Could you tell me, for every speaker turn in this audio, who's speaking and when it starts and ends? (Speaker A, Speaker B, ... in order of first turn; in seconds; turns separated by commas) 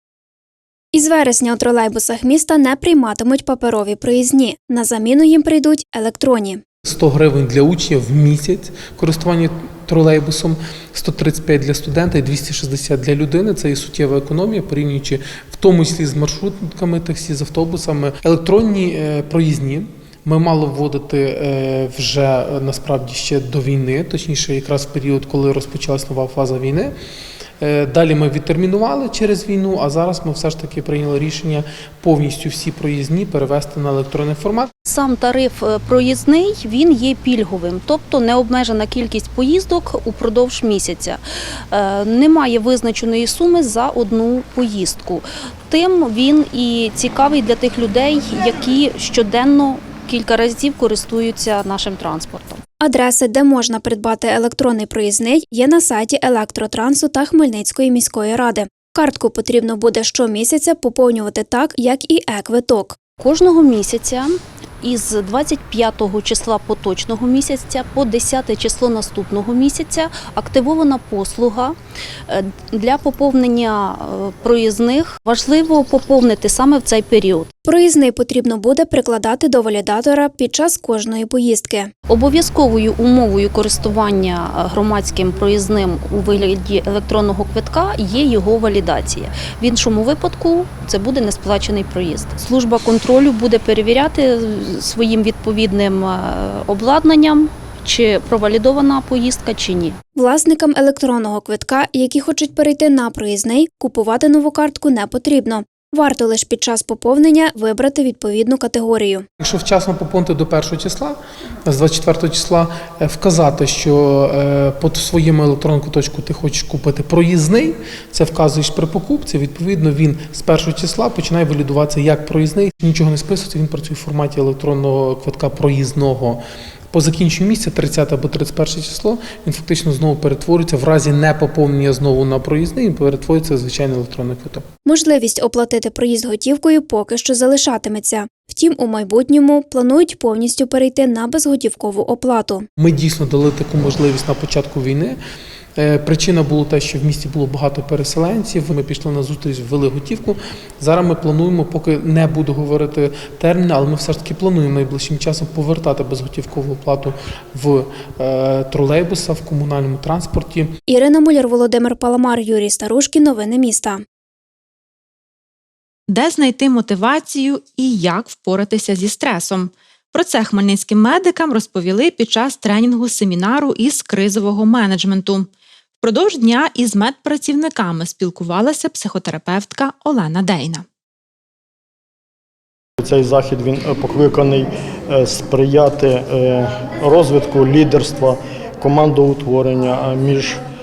Speaker A: 0.9-6.6, Speaker B: 6.8-26.9, Speaker B: 27.6-34.7, Speaker C: 34.8-41.2, Speaker C: 41.7-52.6, Speaker A: 52.8-63.0, Speaker C: 63.2-71.8, Speaker C: 72.3-77.5, Speaker A: 77.6-81.9, Speaker C: 82.1-100.0, Speaker A: 100.2-109.2, Speaker B: 109.4-126.4, Speaker B: 126.9-134.6, Speaker A: 134.8-142.7, Speaker B: 142.8-145.2, Speaker B: 145.8-160.7, Speaker A: 160.9-164.0, Speaker D: 166.1-175.5, Speaker D: 176.0-180.8, Speaker E: 183.0-190.6